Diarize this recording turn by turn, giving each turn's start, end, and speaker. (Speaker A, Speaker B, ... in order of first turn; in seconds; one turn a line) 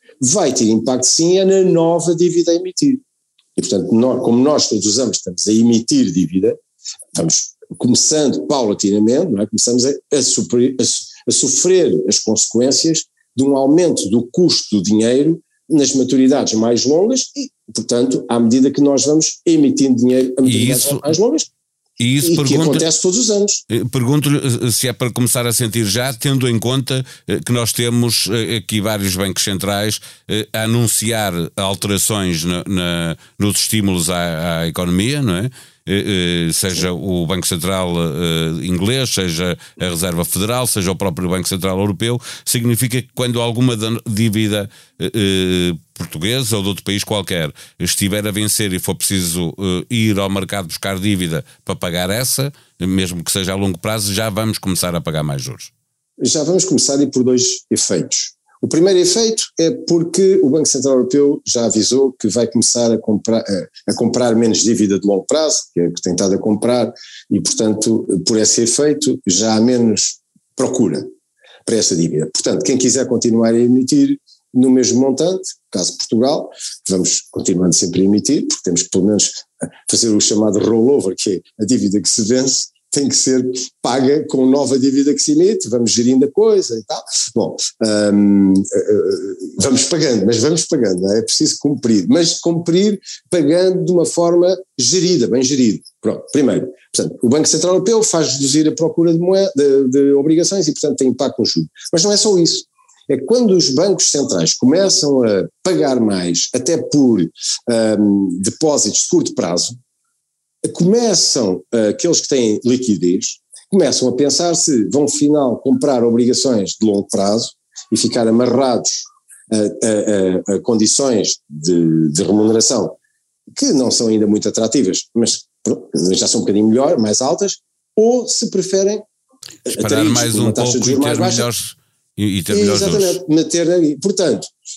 Speaker A: 0.2-3.0
Speaker A: 3.5-6.6
Speaker A: 7.1-21.5
Speaker B: 20.4-21.1
Speaker B: 22.0-22.9
Speaker A: 22.2-23.6
Speaker B: 23.7-55.7
Speaker A: 56.2-71.0
Speaker A: 71.7-109.8
Speaker A: 110.6-123.0
Speaker A: 123.5-129.0
Speaker A: 129.7-131.5
Speaker B: 129.7-133.2
Speaker A: 132.5-134.5